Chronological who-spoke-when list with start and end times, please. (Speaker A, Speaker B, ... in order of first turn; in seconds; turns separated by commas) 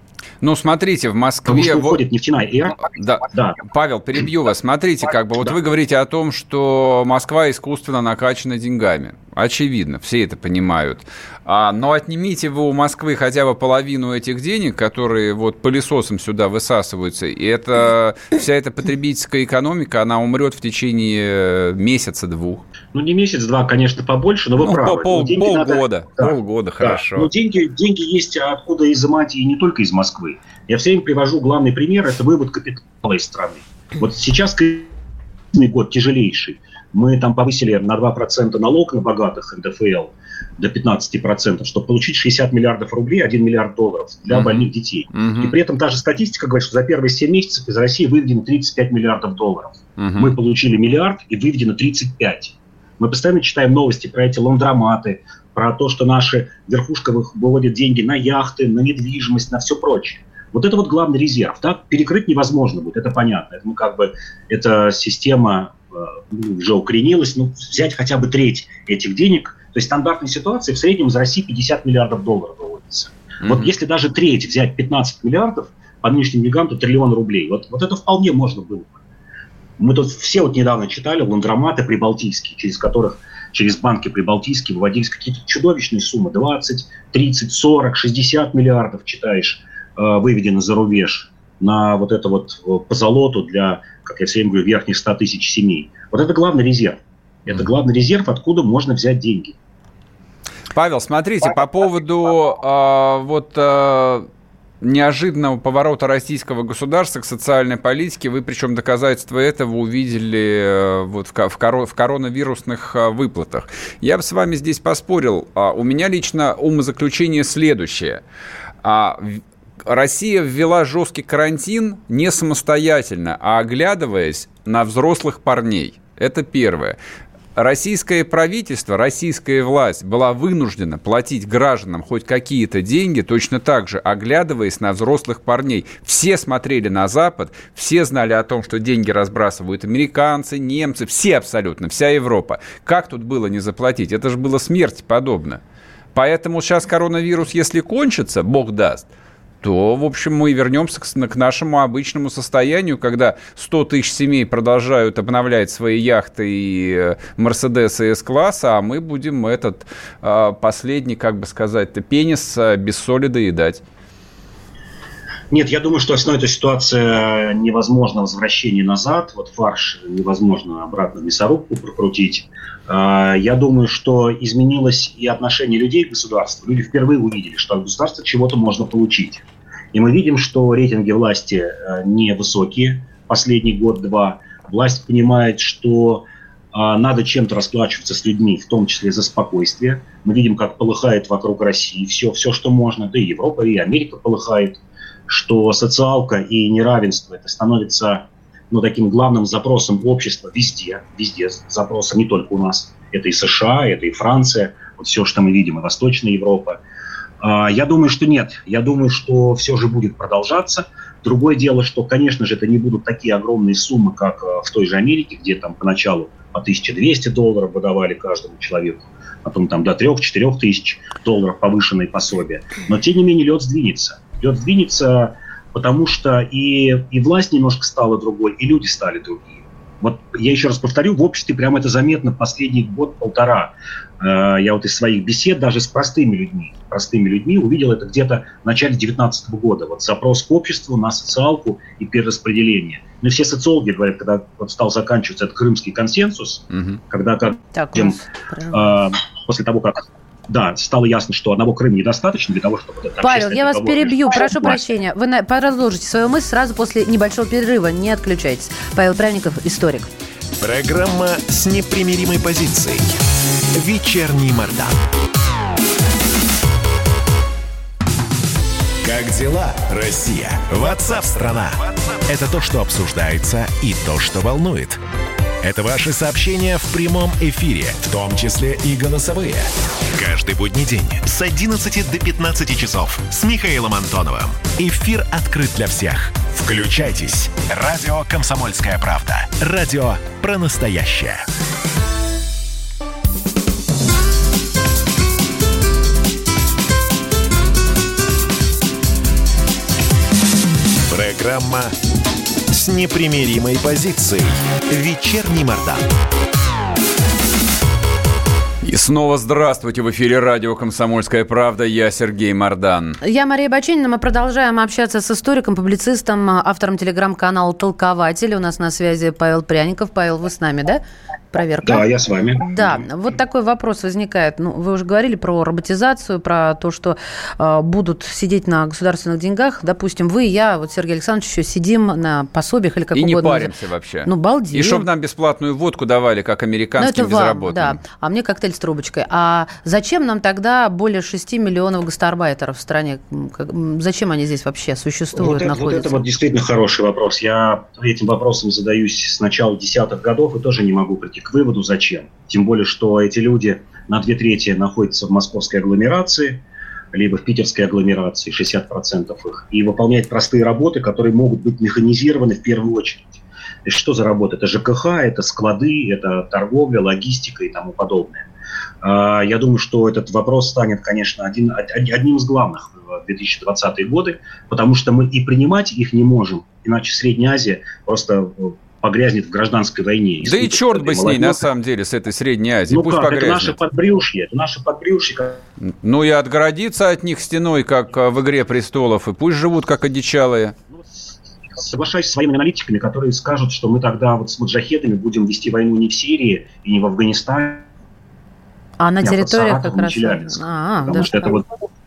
Speaker A: 0.4-2.0, Speaker B: 1.5-3.6, Speaker A: 2.8-22.6, Speaker B: 22.9-34.9, Speaker A: 24.6-27.3, Speaker B: 35.5-79.0, Speaker A: 44.3-45.5, Speaker A: 50.0-50.3, Speaker A: 73.4-73.7, Speaker B: 79.8-99.5, Speaker A: 100.7-104.3, Speaker A: 104.8-118.2, Speaker A: 118.8-127.0, Speaker A: 127.5-145.6, Speaker A: 146.1-149.1, Speaker A: 149.6-163.8, Speaker B: 165.5-206.8, Speaker B: 207.4-248.2, Speaker C: 247.7-248.8, Speaker B: 248.7-254.8, Speaker C: 253.2-260.1, Speaker D: 260.6-263.2, Speaker D: 263.7-265.0, Speaker D: 269.0-275.0, Speaker D: 275.6-291.4, Speaker D: 301.1-301.9, Speaker D: 302.7-306.1, Speaker A: 308.8-313.2, Speaker C: 313.2-322.1, Speaker B: 321.8-322.7, Speaker C: 322.6-333.7, Speaker A: 333.1-338.0, Speaker C: 334.2-335.1, Speaker C: 337.0-346.2, Speaker B: 345.4-368.5, Speaker B: 369.0-381.6, Speaker A: 380.4-383.8, Speaker B: 382.9-385.6, Speaker A: 386.0-390.7, Speaker B: 391.7-397.9, Speaker C: 399.0-401.5, Speaker B: 399.2-401.6